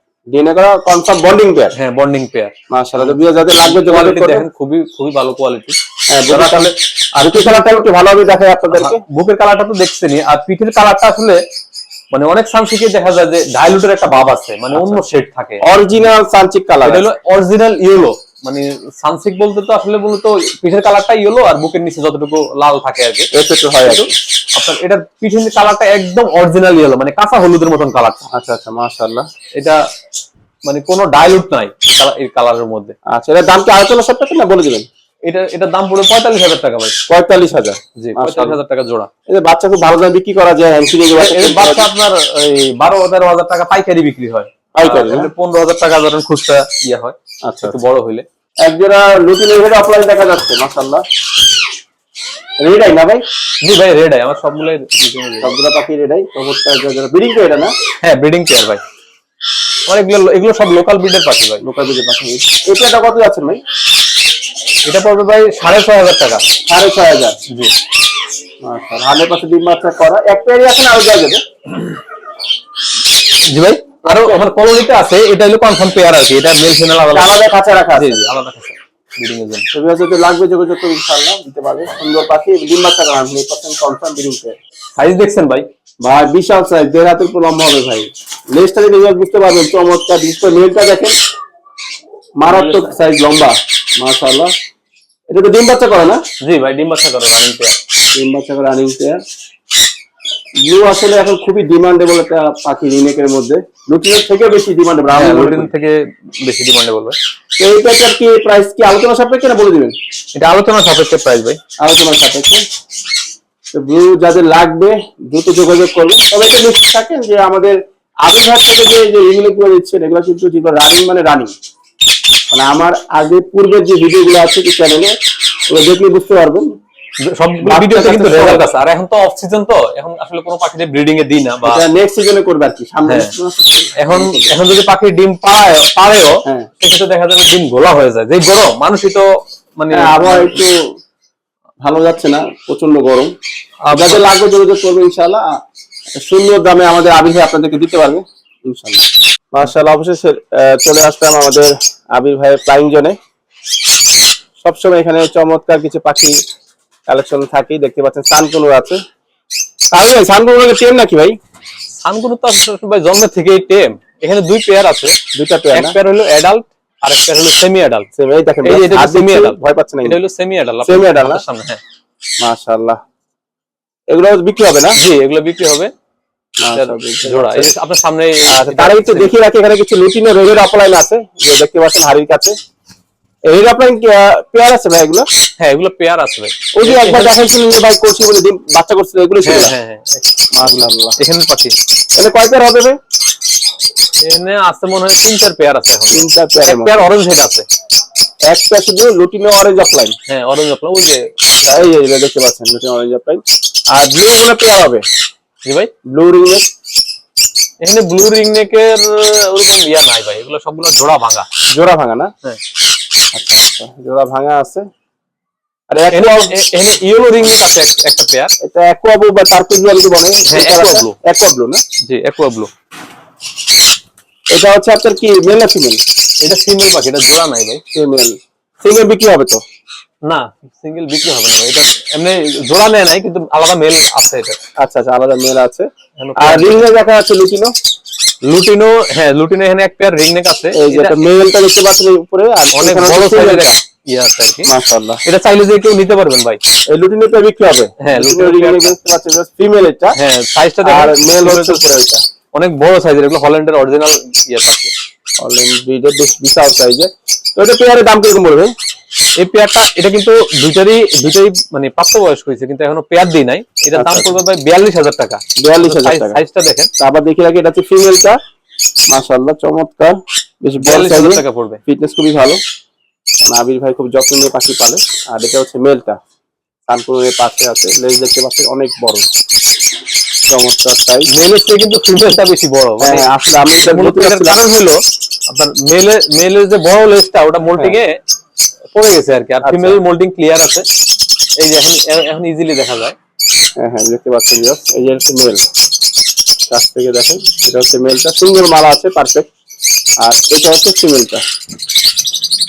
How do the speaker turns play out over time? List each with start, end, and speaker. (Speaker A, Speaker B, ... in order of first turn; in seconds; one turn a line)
Speaker A: 0.3-1.7
Speaker B: 1.7-5.8
Speaker A: 2.7-4.4
Speaker A: 6.1-9.0
Speaker B: 6.3-7.8
Speaker B: 8.7-11.4
Speaker B: 12.1-15.6
Speaker A: 14.7-15.0
Speaker A: 15.6-17.1
Speaker B: 16.8-23.3
Speaker A: 23.3-24.1
Speaker B: 23.8-28.2
Speaker A: 28.3-29.2
Speaker B: 29.6-29.8
Speaker B: 30.6-32.9
Speaker A: 33.1-34.9
Speaker B: 35.2-37.0
Speaker A: 37.1-38.6
Speaker B: 38.0-39.1
Speaker A: 39.3-41.9
Speaker B: 41.1-48.2
Speaker A: 44.8-45.3
Speaker A: 47.5-47.8
Speaker A: 48.6-51.0
Speaker A: 52.6-53.2
Speaker B: 53.6-55.5
Speaker A: 55.4-57.7
Speaker B: 58.0-58.8
Speaker B: 59.9-61.6
Speaker A: 61.6-63.6
Speaker B: 64.8-66.4
Speaker A: 66.7-67.4
Speaker A: 68.6-71.4
Speaker B: 73.5-77.4
Speaker A: 74.0-74.4
Speaker A: 77.1-78.2
Speaker B: 78.0-79.6
Speaker A: 79.7-84.5
Speaker B: 85.0-85.7
Speaker A: 86.0-91.1
Speaker A: 92.4-94.5
Speaker B: 92.5-92.9
Speaker A: 95.3-96.2
Speaker B: 96.4-97.7
Speaker A: 98.1-99.2
Speaker A: 100.6-105.7
Speaker B: 105.1-107.2
Speaker A: 107.6-110.0
Speaker B: 110.3-111.6
Speaker A: 111.8-112.6
Speaker A: 113.7-121.5
Speaker A: 122.5-125.1
Speaker A: 125.7-126.7
Speaker B: 127.2-131.8
Speaker A: 127.6-128.7
Speaker A: 131.6-134.5
Speaker B: 134.0-139.2
Speaker B: 139.8-140.6
Speaker A: 139.9-140.9
Speaker A: 141.8-143.3
Speaker B: 143.8-144.2
Speaker A: 143.9-145.5
Speaker A: 146.2-153.2
Speaker A: 154.6-156.3
Speaker A: 157.1-159.0
Speaker A: 159.9-161.3
Speaker B: 162.0-165.2
Speaker A: 165.3-166.0
Speaker B: 165.7-168.1
Speaker A: 168.2-170.2
Speaker B: 168.6-171.8
Speaker A: 170.8-171.4
Speaker A: 172.4-173.0
Speaker A: 174.1-175.0
Speaker B: 175.0-175.9
Speaker A: 176.6-177.7
Speaker B: 176.7-179.3
Speaker A: 178.5-182.5
Speaker A: 183.5-185.3
Speaker B: 185.6-187.3
Speaker A: 186.7-189.7
Speaker B: 189.4-191.7
Speaker A: 190.5-191.2
Speaker A: 192.2-193.0
Speaker B: 194.2-197.7
Speaker A: 196.1-197.0
Speaker A: 198.5-200.2
Speaker B: 200.3-201.9
Speaker A: 201.6-205.0
Speaker B: 205.6-205.9
Speaker A: 206.1-206.7
Speaker B: 207.8-211.5
Speaker A: 211.7-212.3
Speaker A: 213.3-214.8
Speaker A: 215.9-216.5
Speaker B: 216.1-218.5
Speaker A: 218.6-221.8
Speaker B: 220.5-221.1
Speaker B: 222.1-222.7
Speaker A: 224.5-226.0
Speaker B: 226.4-227.8
Speaker A: 227.9-229.6
Speaker B: 230.2-234.6
Speaker A: 234.8-237.7
Speaker B: 236.2-236.8
Speaker B: 238.4-241.2
Speaker A: 240.7-243.8
Speaker B: 242.7-244.7
Speaker A: 244.7-245.2
Speaker B: 245.2-246.6
Speaker A: 246.9-250.2
Speaker B: 248.0-248.9
Speaker B: 250.2-251.8
Speaker A: 250.8-252.2
Speaker B: 252.5-254.9
Speaker A: 255.4-258.7
Speaker B: 259.4-266.9
Speaker A: 263.9-264.4
Speaker A: 265.6-266.4
Speaker A: 267.0-268.4
Speaker A: 269.1-272.6
Speaker B: 270.8-271.8
Speaker A: 273.4-276.2
Speaker A: 276.9-279.2
Speaker A: 280.5-281.3
Speaker B: 281.3-283.3
Speaker A: 283.0-284.6
Speaker B: 283.8-288.2
Speaker B: 288.9-290.9
Speaker A: 289.6-290.0
Speaker B: 291.6-293.1
Speaker A: 293.8-295.6
Speaker A: 296.7-299.5
Speaker A: 300.2-301.4